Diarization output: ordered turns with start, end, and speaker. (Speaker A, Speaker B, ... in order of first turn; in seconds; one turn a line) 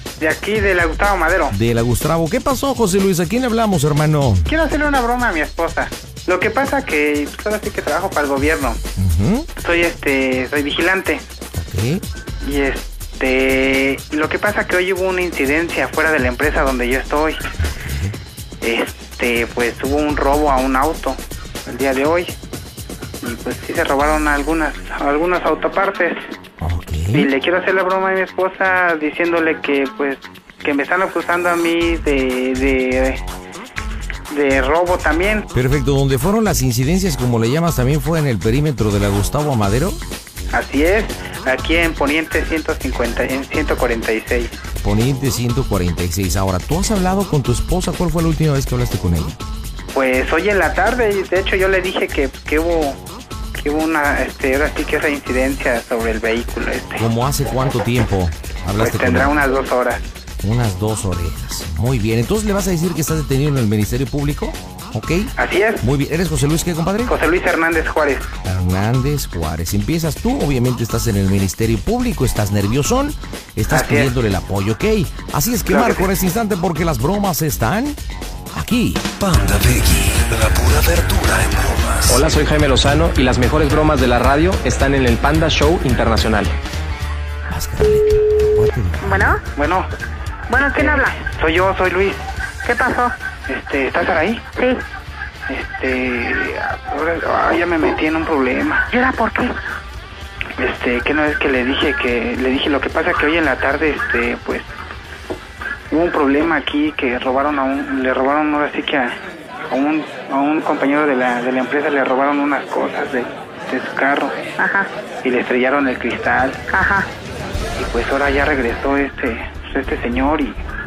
Speaker A: 0.2-1.5
Speaker B: 1.5-4.5
Speaker A: 4.5-8.8
Speaker B: 9.0-9.5
Speaker A: 9.6-11.2
Speaker B: 11.6-12.0
Speaker A: 12.4-17.4
Speaker B: 17.7-18.1
Speaker A: 18.6-22.3
Speaker A: 23.2-26.2
Speaker B: 26.6-27.3
Speaker A: 27.1-33.2
Speaker A: 34.3-35.5
Speaker B: 35.5-40.0
Speaker A: 40.5-44.6
Speaker B: 44.8-49.4
Speaker A: 49.9-53.0
Speaker A: 53.6-57.0
Speaker B: 57.0-59.3
Speaker A: 58.8-60.0
Speaker B: 60.4-67.1
Speaker A: 65.4-65.8
Speaker A: 67.1-68.3
Speaker B: 68.4-78.0
Speaker A: 73.7-74.1
Speaker A: 75.7-76.1
Speaker B: 78.5-79.2
Speaker C: 79.2-82.2
Speaker D: 82.1-86.6
Speaker B: 87.5-89.3
Speaker E: 89.0-89.4
Speaker A: 89.5-89.9
Speaker E: 90.5-91.2
Speaker A: 90.7-92.2
Speaker E: 92.6-93.1
Speaker A: 93.5-94.4
Speaker A: 95.5-98.8
Speaker E: 98.9-99.5
Speaker A: 100.6-104.7
Speaker A: 105.9-109.2
Speaker A: 109.7-114.3
Speaker E: 114.6-114.9
Speaker A: 115.2-116.6
Speaker E: 116.7-117.1
Speaker A: 117.8-120.6